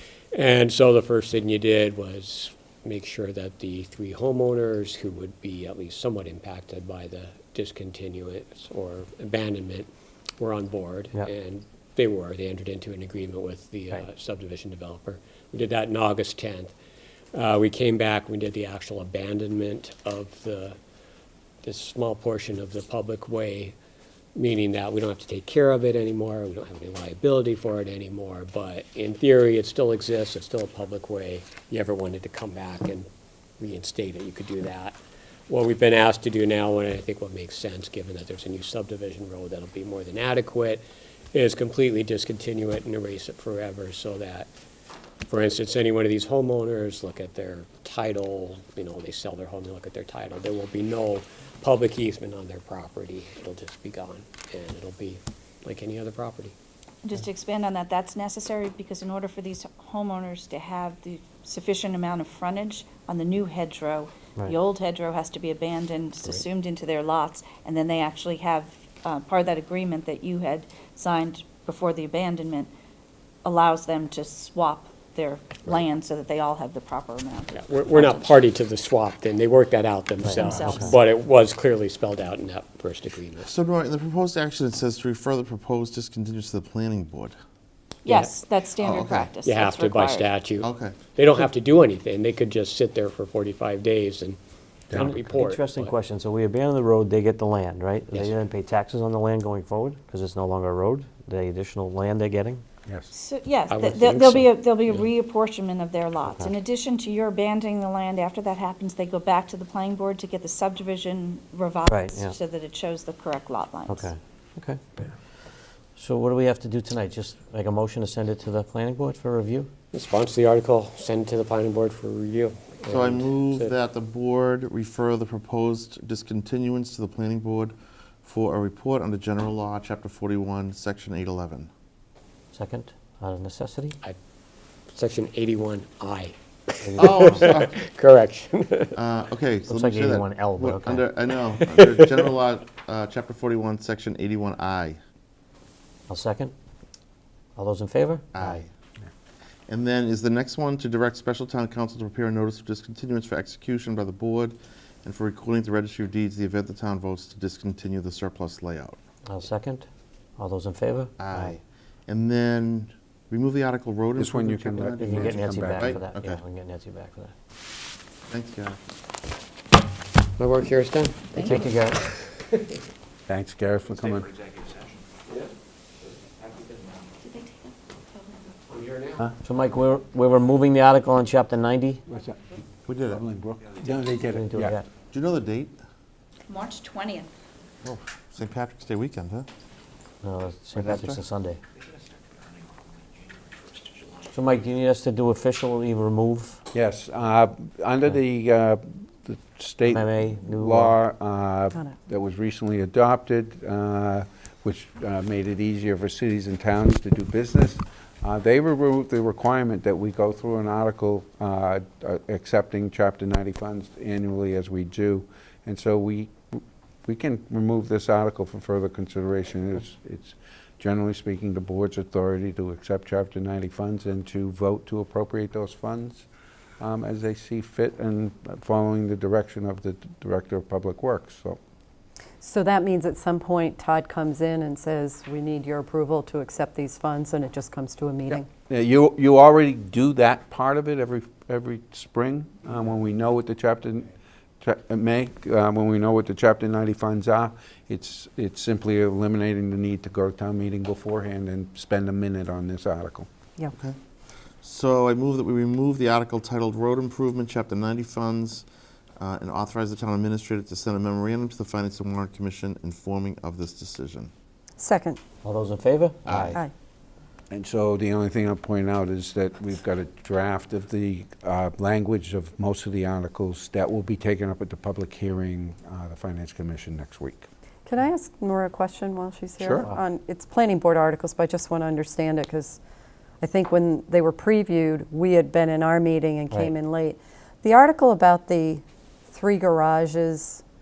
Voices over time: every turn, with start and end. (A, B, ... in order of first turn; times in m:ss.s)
0:00.3-0:16.7 A
0:17.3-0:20.8 A
0:21.6-0:23.7 A
0:24.3-0:33.1 A
0:33.6-0:40.8 A
0:41.3-0:44.5 A
0:45.3-0:56.6 A
0:57.0-1:12.7 B
1:13.4-1:18.4 B
1:17.5-1:23.5 A
1:20.3-1:21.0 B
1:20.3-1:20.9 C
1:23.4-1:27.4 D
1:28.0-1:30.3 B
1:28.0-1:28.3 A
1:28.8-1:29.3 D
1:29.4-1:34.4 A
1:30.6-1:31.0 D
1:34.9-1:35.9 A
1:34.9-1:42.6 C
1:43.1-1:54.1 B
1:43.7-1:45.1 A
1:51.9-1:52.3 C
1:53.9-1:59.7 C
1:59.9-2:03.7 A
2:02.9-2:11.7 D
2:12.5-2:14.0 C
2:14.9-2:19.0 A
2:16.8-2:17.5 C
2:16.9-2:17.8 D
2:18.9-2:25.0 D
2:19.7-2:21.1 C
2:21.6-2:22.1 A
2:26.1-2:26.5 C
2:27.6-2:28.6 C
2:28.3-2:28.7 D
2:29.7-2:39.0 D
2:39.2-2:41.6 C
2:41.2-2:46.4 D
2:44.2-2:46.0 E
2:45.0-2:47.3 C
2:48.3-2:48.8 D
2:50.4-2:52.8 A
2:51.4-2:51.8 B
2:51.4-2:52.0 C
2:53.3-2:54.3 E
2:57.2-2:58.4 B
2:58.7-2:59.3 A
2:59.4-3:02.0 C
3:02.1-3:02.4 E
3:02.9-3:03.2 D
3:03.1-3:04.8 E
3:04.3-3:04.9 C
3:05.1-3:05.8 D
3:06.5-3:07.3 B
3:07.8-3:09.5 D
3:10.2-3:11.6 C
3:10.8-3:11.2 D
3:14.3-3:16.6 C
3:16.7-3:46.3 E
3:19.9-3:21.0 C
3:46.8-3:51.6 E
3:52.4-3:58.5 F
3:58.3-4:13.3 E
4:14.6-4:18.6 D
4:19.2-4:24.3 D
4:24.8-4:25.2 F
4:25.4-4:26.6 C
4:26.2-4:26.6 D
4:27.5-4:37.5 E
4:37.9-4:42.8 F
4:39.6-4:39.9 E
4:43.4-4:50.6 F